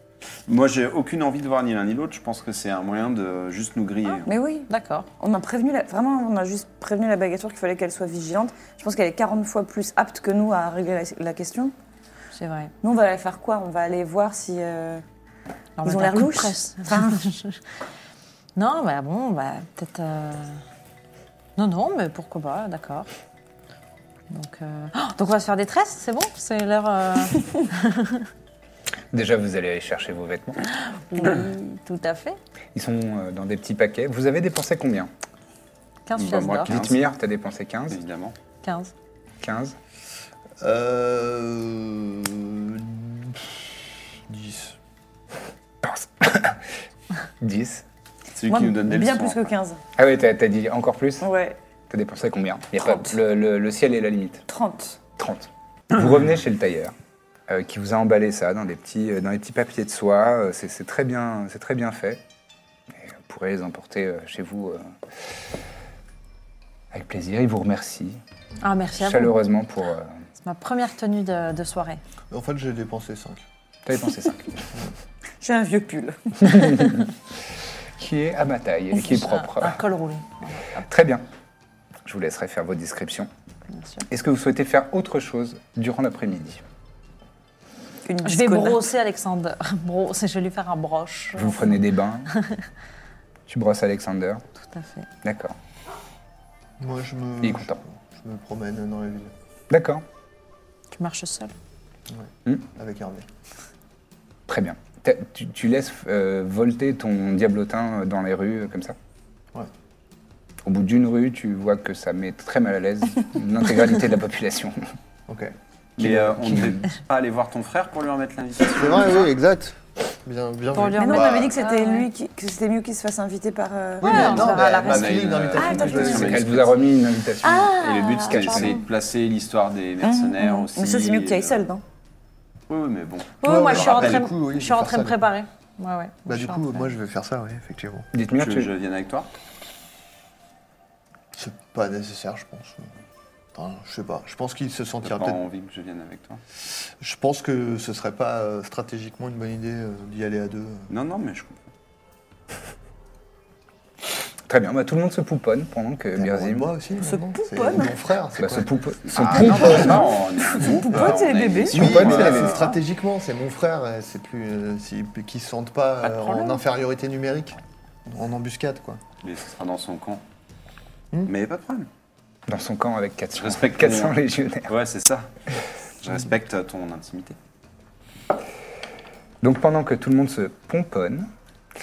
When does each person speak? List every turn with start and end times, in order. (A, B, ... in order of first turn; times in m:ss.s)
0:00.5-0:04.3 A
0:04.2-0:11.7 B
0:04.7-0:05.1 C
0:12.3-0:12.7 C
0:12.8-0:15.0 B
0:15.8-0:17.6 C
0:15.8-0:17.3 B
0:18.6-0:20.6 C
0:21.6-0:23.1 C
0:24.3-0:28.2 C
0:29.1-0:30.6 D
0:30.8-0:32.4 C
0:32.7-0:35.1 D
0:36.0-0:36.8 C
0:36.1-0:37.0 A
0:36.6-0:38.0 D
0:37.9-0:38.3 A
0:38.6-0:38.9 C
0:39.4-0:39.7 D
0:40.6-0:44.8 E
0:45.8-0:46.6 D
0:47.4-0:47.8 D
0:48.4-0:49.4 A
0:48.5-0:49.8 B
0:50.0-0:51.2 D
0:51.2-0:51.6 B
0:51.9-0:54.4 D
0:52.8-0:53.2 B
0:54.5-0:55.0 B
0:55.2-0:56.9 D
0:57.5-1:02.2 D
1:03.0-1:04.9 D
1:06.9-1:08.2 D
1:08.6-1:09.4 C
1:09.0-1:10.1 D
1:10.4-1:12.0 C
1:12.3-1:13.4 E
1:13.8-1:14.6 D
1:15.4-1:17.0 B
1:16.4-1:17.1 D
1:18.0-1:19.8 D
1:19.0-1:20.8 C
1:20.8-1:21.2 D
1:22.0-1:23.3 D
1:23.7-1:24.0 C
1:24.1-1:26.6 D
1:28.0-1:28.8 B
1:28.2-1:31.8 C
1:31.3-1:32.3 D
1:32.3-1:32.6 C
1:33.5-1:34.4 D
1:34.6-1:35.1 C
1:35.2-1:35.5 D
1:36.8-1:39.3 E
1:37.4-1:37.8 D
1:39.7-1:40.0 D
1:40.9-1:41.5 C
1:42.1-1:43.3 E
1:44.5-1:49.0 D
1:50.6-1:54.8 D
1:55.3-1:56.6 E
1:56.0-1:59.3 A
1:56.0-1:56.8 D
1:58.7-2:01.5 E
2:00.7-2:02.1 C
2:01.0-2:04.8 B
2:04.0-2:06.4 E
2:04.0-2:05.6 C
2:04.8-2:06.8 A
2:05.6-2:06.3 B
2:06.0-2:08.8 D
2:07.4-2:08.8 C
2:07.8-2:11.6 A
2:10.0-2:11.8 B
2:12.7-2:14.3 A
2:13.4-2:16.9 C
2:13.4-2:15.2 E
2:16.3-2:18.1 E
2:18.1-2:18.7 D
2:18.4-2:19.3 A
2:21.3-2:22.9 E
2:23.5-2:25.4 E
2:25.0-2:26.4 A
2:27.0-2:30.9 E
2:30.9-2:31.7 A
2:34.5-2:36.7 D
2:36.1-2:38.7 E
2:37.0-2:37.9 B
2:38.4-2:40.1 D
2:39.1-2:42.7 A
2:39.3-2:42.7 B
2:41.7-2:49.0 E
2:41.8-2:42.3 D
2:49.2-2:50.2 A
2:51.2-2:51.9 A
2:52.5-2:54.7 D
2:53.4-2:54.2 A
2:54.7-2:55.3 A
2:56.0-2:57.4 A
2:59.4-3:01.3 D